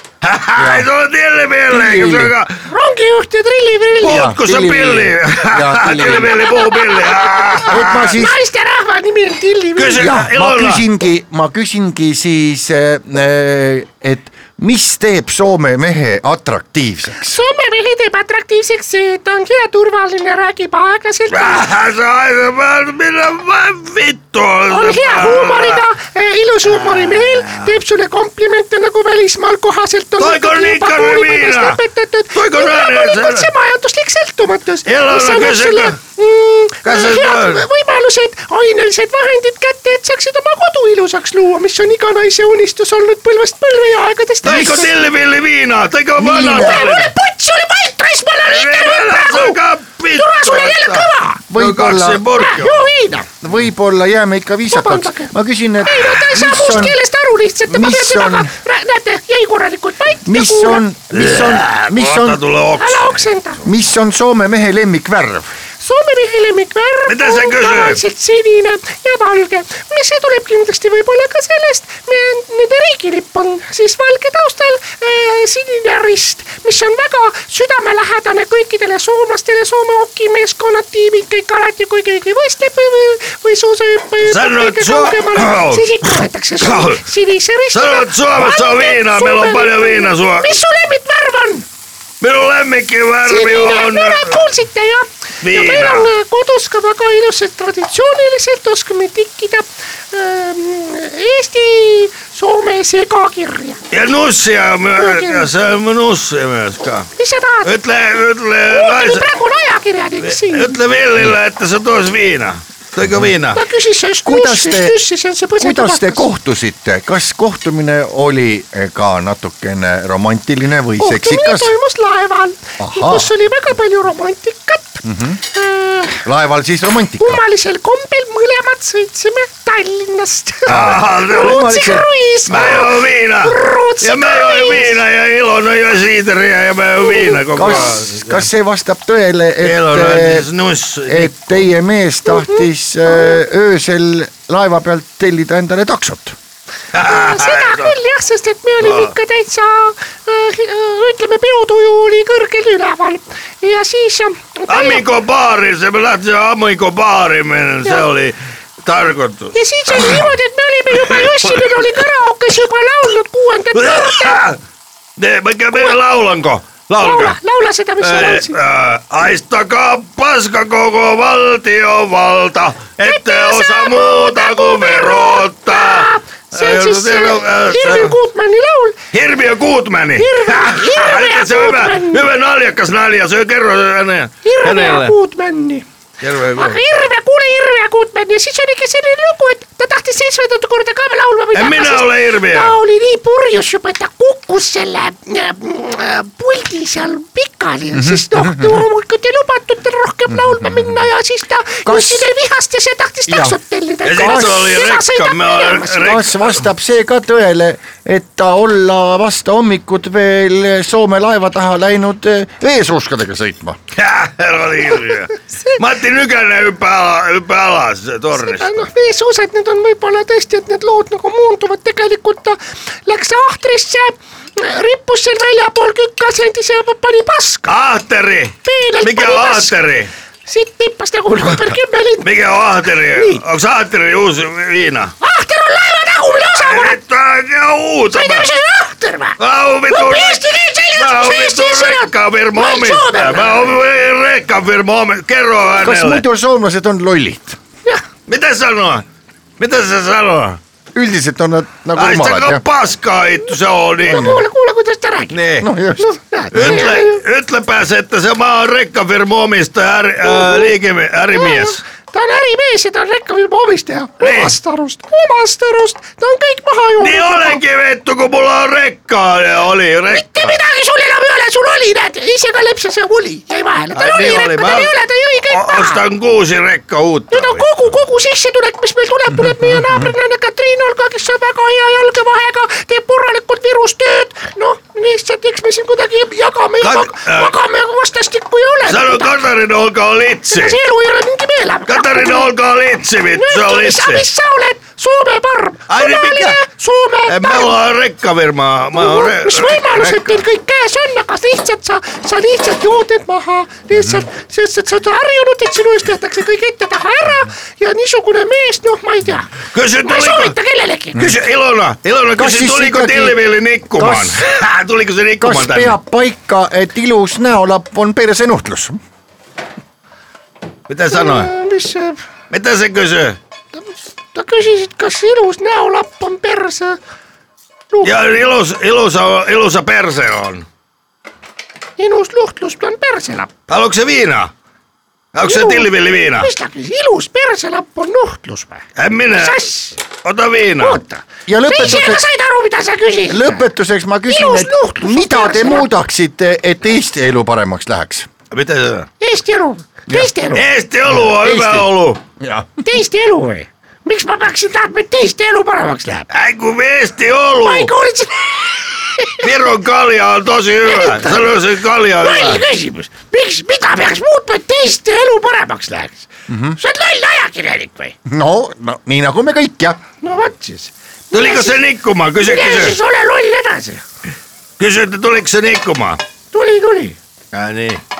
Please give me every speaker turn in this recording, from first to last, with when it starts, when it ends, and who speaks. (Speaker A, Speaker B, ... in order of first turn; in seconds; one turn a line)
Speaker A: 0.2-2.5
Speaker B: 0.6-0.9
Speaker B: 1.7-2.3
Speaker C: 2.7-4.3
Speaker A: 4.0-8.1
Speaker B: 4.0-6.4
Speaker C: 6.0-10.1
Speaker B: 7.7-8.4
Speaker A: 9.8-10.8
Speaker B: 9.9-17.4
Speaker C: 17.2-21.6
Speaker A: 21.3-25.8
Speaker C: 24.7-44.9
Speaker A: 26.8-27.7
Speaker A: 30.2-31.8
Speaker A: 32.3-33.5
Speaker A: 34.9-36.0
Speaker A: 36.8-37.6
Speaker A: 44.4-47.1
Speaker B: 46.2-47.0
Speaker C: 46.4-49.6
Speaker A: 48.5-52.9
Speaker C: 50.1-51.4
Speaker B: 51.5-52.2
Speaker C: 52.3-53.3
Speaker B: 53.4-57.0
Speaker C: 54.7-55.3
Speaker C: 55.8-60.8
Speaker B: 57.7-58.5
Speaker B: 60.2-62.4
Speaker A: 61.1-63.2
Speaker C: 62.8-63.6
Speaker B: 63.6-65.5
Speaker C: 65.8-91.6
Speaker A: 67.1-68.0
Speaker A: 84.2-87.0
Speaker A: 87.7-90.6
Speaker A: 92.2-94.4
Speaker C: 93.2-103.8
Speaker A: 95.4-96.1
Speaker A: 103.9-107.1
Speaker C: 105.0-105.5
Speaker C: 107.2-107.7
Speaker A: 107.6-109.2
Speaker C: 108.7-110.8
Speaker A: 110.2-113.6
Speaker C: 113.5-116.2
Speaker B: 114.2-115.0
Speaker B: 115.6-121.7
Speaker C: 121.0-126.2
Speaker B: 122.8-123.3
Speaker B: 125.0-125.4
Speaker B: 126.2-127.4
Speaker C: 127.2-135.0
Speaker A: 130.7-131.9
Speaker B: 130.7-132.1
Speaker A: 132.5-138.4
Speaker C: 137.0-137.8
Speaker B: 137.5-140.5
Speaker A: 139.6-141.6
Speaker B: 141.1-146.3
Speaker C: 142.3-143.3
Speaker A: 146.9-147.9
Speaker C: 146.9-155.0
Speaker A: 148.8-149.1
Speaker A: 154.7-160.3
Speaker C: 159.5-164.4
Speaker A: 160.9-161.8
Speaker A: 163.7-164.6
Speaker A: 165.2-167.4
Speaker C: 167.0-168.5
Speaker A: 168.0-178.2
Speaker C: 173.0-179.0
Speaker A: 179.1-185.1
Speaker C: 180.2-182.2
Speaker C: 184.4-185.8
Speaker A: 186.2-186.8
Speaker C: 186.5-206.2
Speaker A: 191.5-192.8
Speaker B: 197.9-198.8
Speaker B: 200.3-201.0
Speaker B: 201.8-202.3
Speaker B: 203.3-203.6
Speaker A: 204.0-206.5
Speaker B: 204.1-204.6
Speaker B: 205.9-213.8
Speaker A: 213.9-218.8
Speaker C: 215.5-215.8
Speaker C: 218.3-227.7
Speaker A: 227.7-230.1
Speaker C: 228.6-229.7
Speaker C: 230.4-232.3
Speaker A: 232.2-235.1
Speaker C: 233.1-233.4
Speaker C: 235.2-237.0
Speaker A: 236.6-238.5
Speaker C: 238.1-239.3
Speaker A: 239.4-246.2
Speaker C: 239.9-243.7
Speaker B: 245.8-247.6
Speaker A: 248.3-249.0
Speaker A: 249.6-250.6
Speaker B: 250.9-252.6
Speaker A: 251.9-254.3
Speaker C: 254.0-257.2
Speaker B: 254.1-254.4
Speaker A: 255.3-255.7
Speaker B: 255.6-256.8
Speaker A: 256.5-261.8
Speaker C: 260.2-260.7
Speaker C: 261.3-267.6
Speaker A: 264.2-264.5
Speaker A: 267.0-270.6
Speaker C: 270.1-276.0
Speaker A: 273.9-274.9
Speaker A: 275.5-277.6
Speaker C: 277.3-289.4
Speaker B: 279.4-279.8
Speaker A: 286.8-287.5
Speaker A: 288.9-290.8
Speaker C: 290.5-292.5
Speaker A: 291.9-294.2
Speaker C: 293.3-297.7
Speaker A: 295.9-296.6
Speaker A: 297.3-300.4
Speaker C: 298.9-309.5
Speaker A: 309.7-310.5
Speaker C: 310.0-311.2
Speaker A: 311.1-316.0
Speaker B: 312.3-313.4
Speaker B: 313.9-314.5
Speaker B: 315.4-319.0
Speaker A: 320.9-321.5
Speaker C: 321.1-322.2
Speaker A: 322.5-323.4
Speaker C: 323.7-327.0
Speaker A: 328.0-330.6
Speaker C: 332.0-333.5
Speaker A: 333.7-334.5
Speaker A: 335.3-336.5
Speaker C: 335.4-338.8
Speaker A: 338.9-339.6
Speaker C: 339.4-339.9
Speaker A: 340.2-341.0
Speaker C: 340.8-343.6
Speaker B: 341.5-342.2
Speaker B: 343.3-348.3
Speaker C: 344.3-345.9
Speaker A: 348.5-349.1
Speaker C: 349.2-350.6
Speaker B: 350.1-350.3
Speaker A: 350.5-352.2
Speaker B: 351.1-351.9
Speaker B: 352.4-352.7
Speaker C: 352.8-356.3
Speaker A: 356.3-357.9
Speaker C: 357.6-359.4
Speaker A: 359.4-362.6
Speaker C: 360.8-361.5
Speaker C: 362.2-366.3
Speaker B: 366.5-366.8
Speaker C: 366.8-368.1
Speaker B: 368.2-370.0
Speaker C: 370.2-371.8
Speaker A: 371.3-373.0
Speaker C: 372.4-374.0
Speaker A: 374.8-376.2
Speaker C: 376.5-377.1
Speaker A: 377.5-378.0